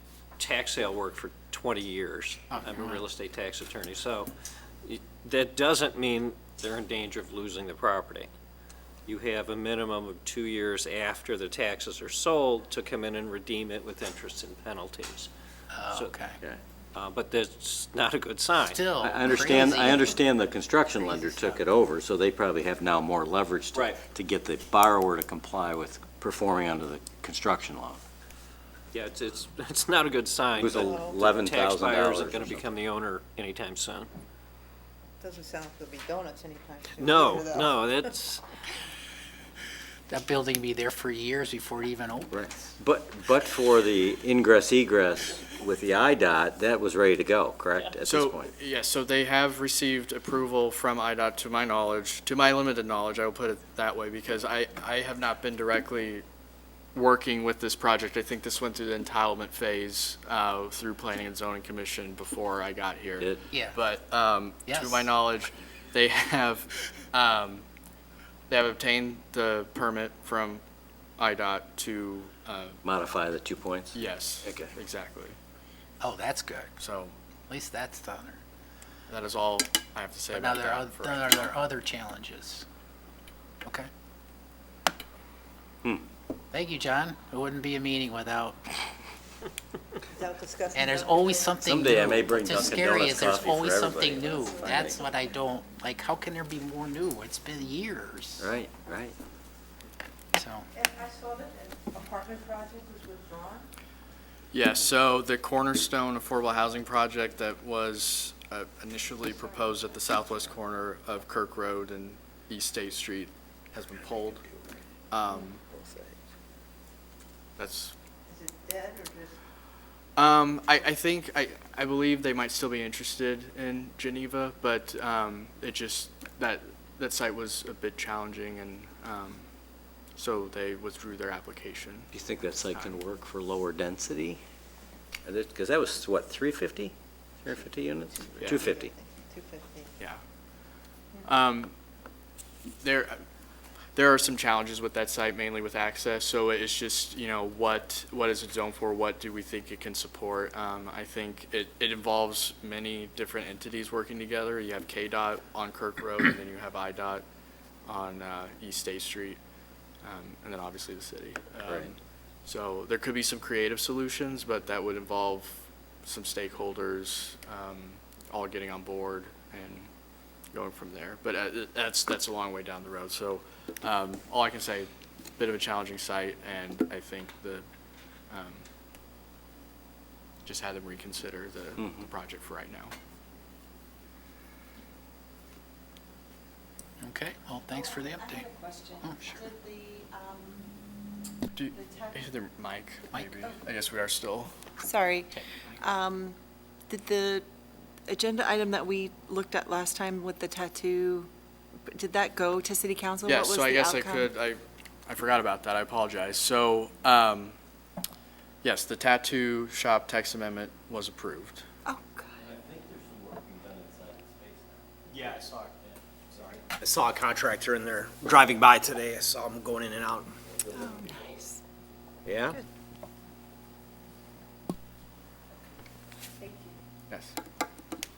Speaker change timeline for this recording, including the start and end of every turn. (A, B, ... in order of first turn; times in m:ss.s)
0:00.4-0:04.3 A
0:02.6-0:03.0 B
0:04.8-0:08.3 A
0:09.0-0:15.3 A
0:15.7-0:16.4 B
0:16.9-0:18.8 A
0:18.6-0:20.2 B
0:19.0-0:28.0 C
0:21.2-0:21.6 D
0:23.7-0:24.0 A
0:28.9-0:34.1 A
0:30.6-0:32.7 C
0:30.7-0:31.1 D
0:35.2-0:37.9 D
0:37.0-0:38.4 A
0:40.1-0:42.6 B
0:42.3-0:48.5 C
0:48.0-0:56.2 E
0:56.9-1:07.6 E
1:03.5-1:03.8 B
1:04.7-1:05.1 B
1:08.5-1:10.6 E
1:11.2-1:12.8 E
1:12.8-1:14.7 C
1:13.9-1:15.4 E
1:16.0-1:16.7 B
1:16.8-1:17.1 E
1:17.5-1:18.4 B
1:19.1-1:21.5 E
1:20.3-1:22.6 B
1:26.5-1:28.6 B
1:30.1-1:31.6 D
1:30.7-1:38.5 B
1:31.6-1:35.0 C
1:34.2-1:35.1 D
1:38.4-1:39.1 C
1:40.3-1:40.7 B
1:40.7-1:43.7 D
1:44.5-1:54.4 E
1:55.1-1:55.6 E
1:57.6-1:57.9 E
1:58.3-1:59.4 D
2:00.2-2:09.5 E
2:10.1-2:12.1 E
2:12.1-2:14.4 C
2:12.7-2:13.0 E
2:15.2-2:18.9 C
2:18.2-2:20.0 D
2:18.4-2:18.6 E
2:21.2-2:21.7 E
2:22.8-2:23.2 E
2:23.9-2:37.2 E
2:37.8-2:39.4 E
2:40.0-2:49.9 E
2:41.6-2:41.9 C
2:50.5-2:57.6 E
2:58.3-2:58.6 E
3:00.4-3:02.9 E
3:01.8-3:02.1 C
3:07.0-3:08.5 B
3:07.7-3:10.7 F
3:09.0-3:09.4 B
3:11.5-3:14.5 E
3:11.7-3:12.2 F
3:13.1-3:13.4 B
3:14.8-3:16.4 F
3:16.9-3:17.4 F
3:18.1-3:21.3 F
3:21.9-3:24.3 F
3:23.2-3:27.6 E
3:28.6-3:31.6 E
3:31.8-3:32.4 F
3:32.4-3:36.7 C
3:35.1-3:35.7 G
3:36.4-3:40.3 G
3:40.5-3:41.4 C
3:40.7-3:41.6 F
3:47.1-3:47.4 E